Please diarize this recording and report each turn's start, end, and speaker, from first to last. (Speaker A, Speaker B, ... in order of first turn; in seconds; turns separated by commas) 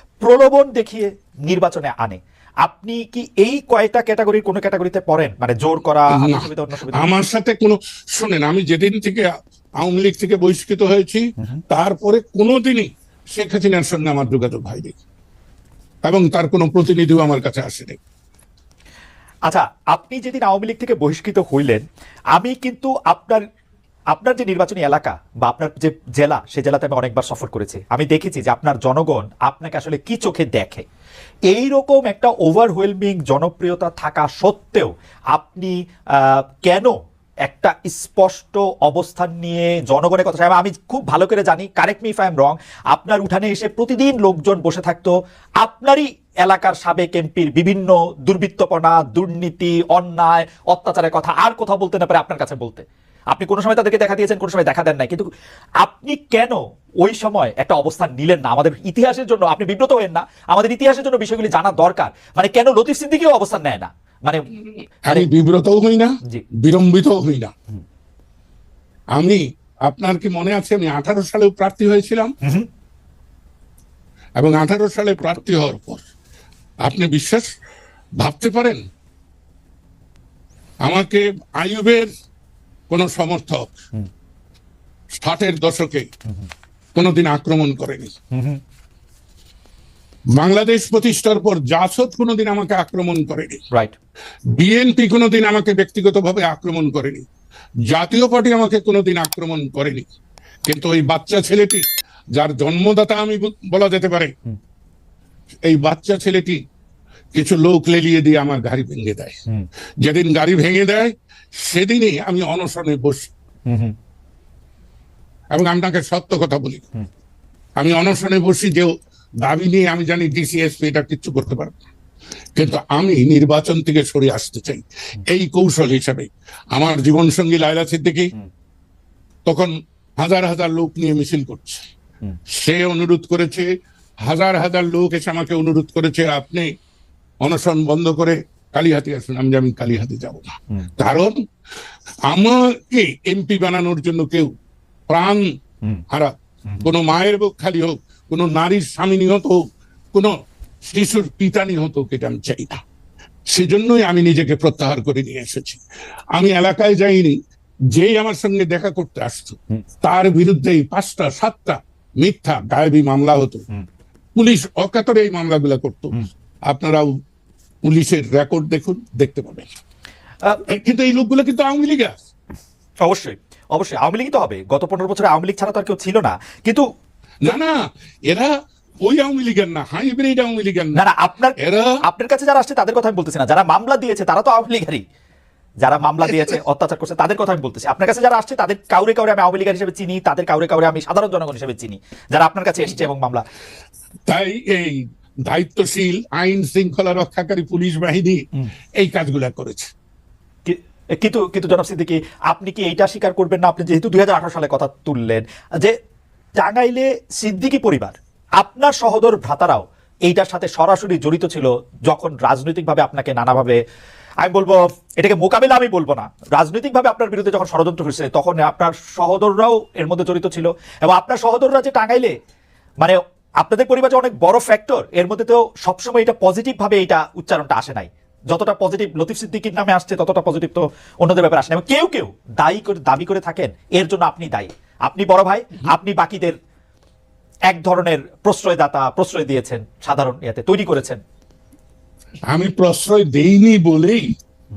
Speaker A: 0.2-7.1, Speaker B: 6.1-9.3, Speaker B: 9.8-15.0, Speaker B: 16.1-18.0, Speaker A: 19.5-21.8, Speaker A: 22.4-23.4, Speaker A: 24.1-30.9, Speaker A: 31.5-55.3, Speaker A: 55.8-64.5, Speaker B: 65.1-67.5, Speaker B: 69.2-72.3, Speaker B: 74.4-76.0, Speaker B: 76.8-77.5, Speaker B: 78.2-78.8, Speaker B: 80.8-82.1, Speaker B: 82.9-83.8, Speaker B: 85.1-86.1, Speaker B: 87.0-88.1, Speaker A: 88.3-88.6, Speaker B: 90.4-93.6, Speaker A: 93.7-94.0, Speaker B: 94.5-97.2, Speaker B: 97.9-100.1, Speaker B: 100.7-104.3, Speaker B: 105.7-106.6, Speaker B: 107.3-109.4, Speaker B: 110.0-113.3, Speaker A: 113.7-114.0, Speaker B: 115.5-116.8, Speaker B: 117.8-121.8, Speaker B: 122.6-128.3, Speaker B: 129.5-131.9, Speaker B: 132.5-133.7, Speaker B: 134.3-136.7, Speaker B: 137.4-141.4, Speaker B: 142.3-144.5, Speaker B: 145.1-145.5, Speaker B: 146.1-149.6, Speaker B: 150.1-152.8, Speaker B: 153.5-155.8, Speaker B: 156.3-157.4, Speaker B: 157.9-163.7, Speaker B: 164.3-166.2, Speaker B: 166.7-167.1, Speaker B: 167.8-169.7, Speaker B: 170.7-172.2, Speaker A: 173.0-176.9, Speaker B: 177.4-177.8, Speaker B: 178.3-181.0, Speaker A: 181.0-185.0, Speaker B: 181.6-182.0, Speaker A: 185.8-193.4, Speaker B: 194.3-198.4, Speaker B: 199.0-199.9, Speaker A: 200.7-206.0, Speaker A: 206.6-213.8, Speaker A: 214.4-222.4, Speaker A: 223.0-236.6, Speaker A: 237.7-241.2, Speaker B: 242.5-244.3